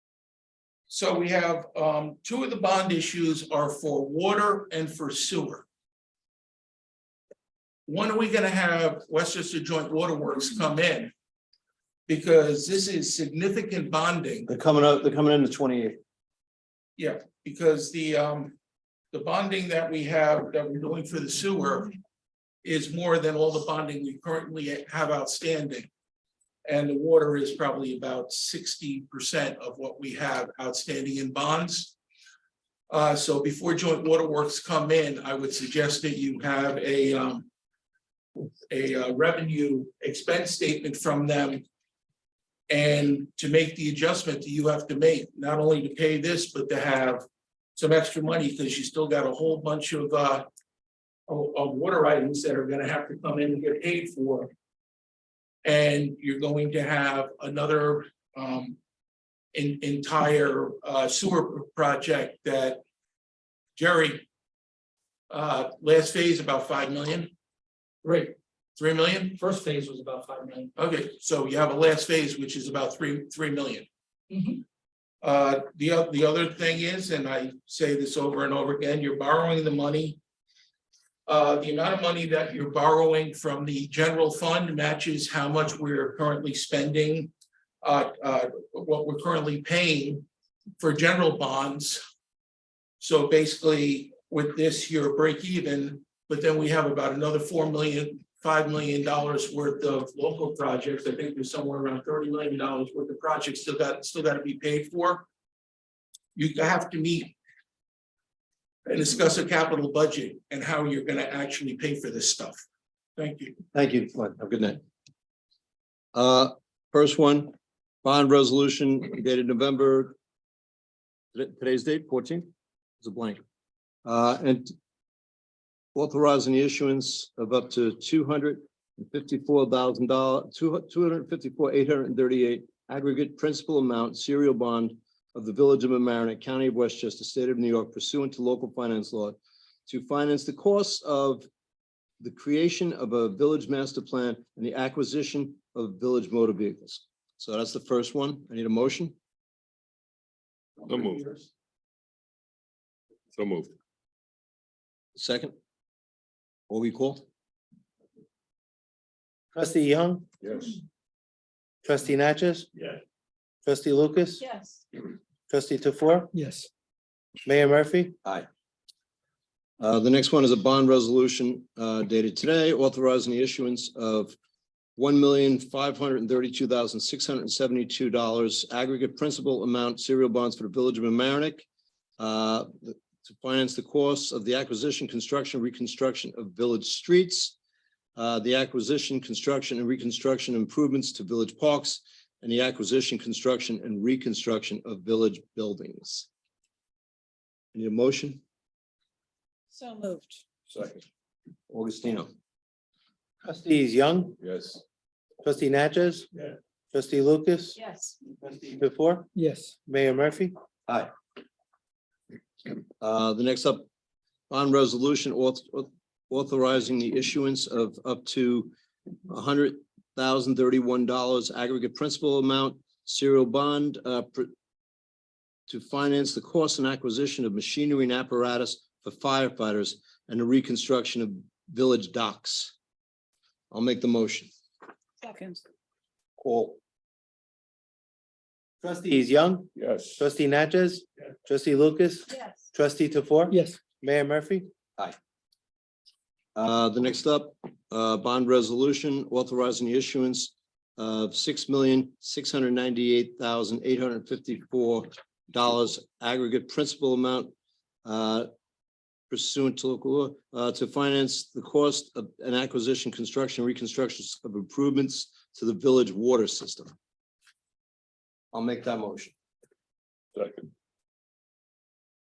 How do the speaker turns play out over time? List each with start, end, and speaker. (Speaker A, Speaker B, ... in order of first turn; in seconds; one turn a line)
Speaker A: 0.9-5.7
Speaker A: 7.9-11.1
Speaker A: 12.1-14.5
Speaker B: 14.5-16.0
Speaker A: 17.0-18.6
Speaker A: 19.1-22.0
Speaker A: 22.6-25.9
Speaker A: 26.7-31.9
Speaker A: 32.9-37.5
Speaker A: 38.7-41.6
Speaker A: 42.7-47.2
Speaker A: 47.8-50.5
Speaker A: 51.3-54.5
Speaker A: 55.6-58.8
Speaker A: 59.5-62.8
Speaker A: 63.8-64.3
Speaker A: 65.3-67.3
Speaker C: 68.0-68.3
Speaker A: 68.8-69.4
Speaker C: 69.4-70.7
Speaker A: 70.8-73.9
Speaker A: 75.2-80.2
Speaker A: 81.3-90.3
Speaker A: 90.8-92.0
Speaker A: 93.0-105.3
Speaker A: 106.3-107.4
Speaker A: 108.9-112.6
Speaker A: 113.2-113.6
Speaker B: 113.7-114.8
Speaker B: 116.1-120.2
Speaker B: 121.3-123.4
Speaker B: 124.0-124.7
Speaker B: 126.0-141.5
Speaker B: 142.2-149.2
Speaker D: 150.9-151.4
Speaker D: 153.3-153.7
Speaker B: 155.2-155.5
Speaker B: 156.7-157.2
Speaker E: 159.6-160.3
Speaker D: 160.4-160.8
Speaker E: 161.8-162.7
Speaker E: 163.7-164.4
Speaker F: 164.4-164.8
Speaker E: 165.5-166.3
Speaker C: 166.3-166.7
Speaker E: 167.4-168.2
Speaker B: 169.8-174.4
Speaker B: 175.0-181.7
Speaker B: 182.2-187.6
Speaker B: 188.2-196.3
Speaker B: 197.7-198.4
Speaker F: 199.7-200.4
Speaker D: 200.7-201.0
Speaker B: 201.7-202.3
Speaker E: 203.4-204.4
Speaker D: 204.4-204.8
Speaker E: 205.4-206.3
Speaker E: 206.9-207.8
Speaker F: 207.8-208.2
Speaker E: 208.3-209.3
Speaker C: 209.3-209.8
Speaker E: 209.8-210.5
Speaker B: 213.0-213.9
Speaker B: 214.5-218.7
Speaker B: 219.3-224.5
Speaker B: 225.7-232.7
Speaker B: 233.7-234.5
Speaker F: 235.2-235.6
Speaker B: 236.4-236.8
Speaker E: 238.8-244.7
Speaker D: 239.8-240.2
Speaker F: 242.3-242.7
Speaker C: 243.5-243.8
Speaker B: 246.6-257.5
Speaker B: 258.1-258.5
Speaker B: 259.3-266.9
Speaker B: 268.5-269.3
Speaker D: 270.4-270.7